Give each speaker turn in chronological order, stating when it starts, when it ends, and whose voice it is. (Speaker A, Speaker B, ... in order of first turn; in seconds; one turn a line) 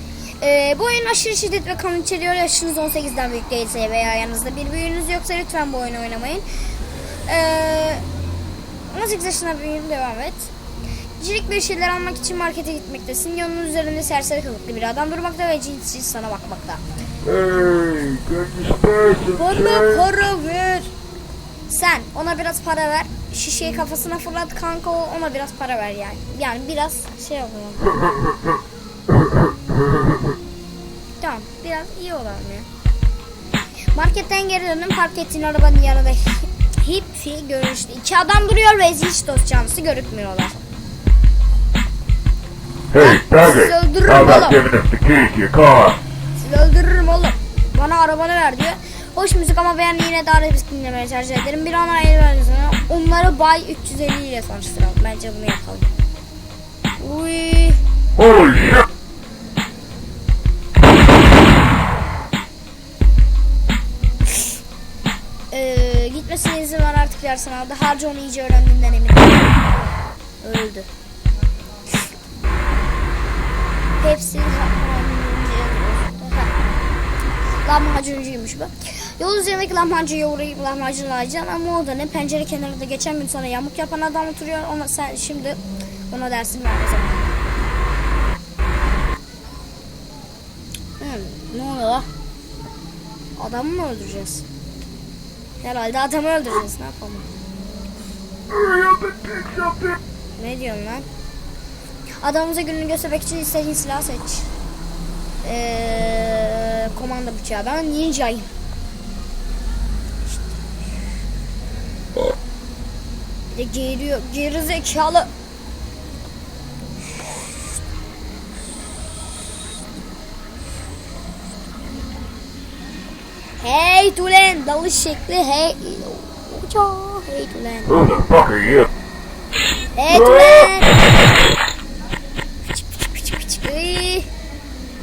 Speaker A: 0.4-6.5
Speaker A: 7.2-8.0
Speaker A: 8.9-10.5
Speaker A: 11.2-16.8
Speaker B: 17.2-20.1
Speaker A: 19.4-20.9
Speaker A: 21.7-27.9
Speaker A: 31.2-32.7
Speaker A: 33.9-40.6
Speaker B: 42.9-46.0
Speaker A: 43.0-44.6
Speaker A: 46.4-55.9
Speaker A: 57.0-57.8
Speaker B: 58.2-58.9
Speaker A: 65.5-69.5
Speaker A: 70.4-70.9
Speaker A: 74.0-76.5
Speaker A: 77.6-85.6
Speaker A: 86.1-87.3
Speaker A: 91.0-92.1
Speaker A: 93.4-94.5
Speaker A: 95.6-97.3
Speaker B: 98.5-100.0
Speaker A: 100.4-101.1
Speaker A: 102.2-104.5
Speaker A: 105.4-108.5
Speaker A: 113.5-115.3
Speaker A: 123.6-128.0
Speaker B: 127.9-128.9
Speaker A: 130.0-130.9
Speaker B: 130.1-130.7
Speaker A: 132.7-134.3